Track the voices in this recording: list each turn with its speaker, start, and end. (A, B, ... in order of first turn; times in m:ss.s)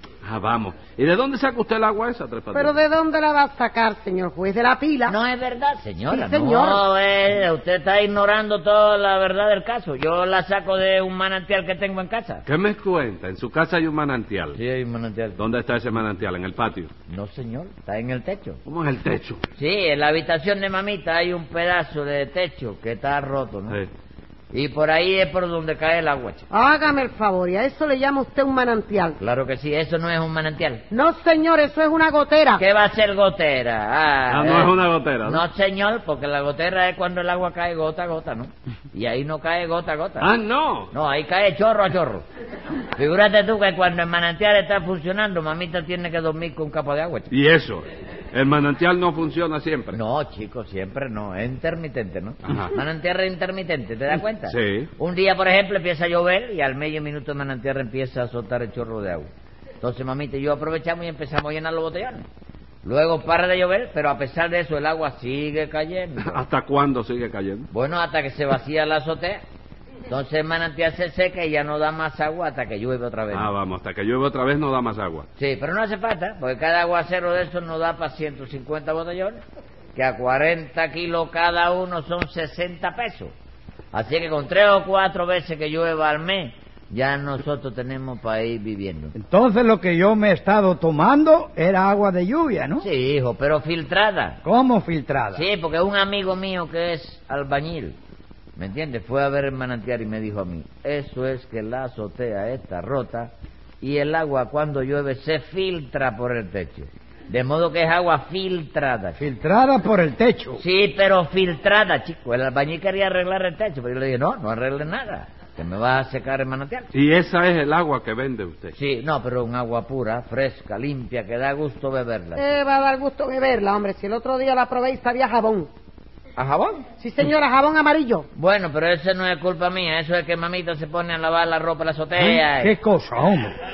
0:00.2-0:02.7 A
0:02.5-0:05.1 B
0:05.1-0:12.4 C
0:06.1-0:06.8 B
0:12.4-0:14.6 A
0:14.5-0:15.4 C
0:15.4-0:16.9 A
0:17.1-0:18.6 C
0:18.6-0:19.4 A
0:19.6-0:23.8 C
0:24.5-0:26.4 C
0:26.5-0:29.2 B
0:29.2-0:30.8 C
0:30.9-0:32.6 B
0:32.6-0:40.3 C
0:34.3-0:35.4 A
0:40.2-0:40.9 A
0:40.9-0:42.2 C
0:43.0-0:47.3 C
0:47.3-0:50.0 A
0:49.9-0:59.3 C
0:52.5-0:52.7 A
0:54.5-0:54.9 A
0:59.8-1:02.3 C
1:02.8-1:06.4 C
1:06.2-1:07.7 A
1:07.7-1:09.4 C
1:10.1-1:13.5 C
1:13.3-1:15.3 A
1:15.4-1:19.4 C
1:19.9-1:23.3 C
1:23.9-1:29.1 C
1:29.1-1:32.9 D
1:32.8-1:34.4 C
1:34.4-1:35.5 D
1:35.3-1:38.0 C
1:38.6-1:49.2 C
1:49.2-1:50.6 D
1:50.6-1:56.9 C
1:56.9-1:58.7 A
1:58.8-2:02.4 C
2:02.4-2:05.7 B
2:06.4-2:06.8 C
2:07.0-2:08.2 B
2:08.4-2:12.8 C
2:12.2-2:13.5 D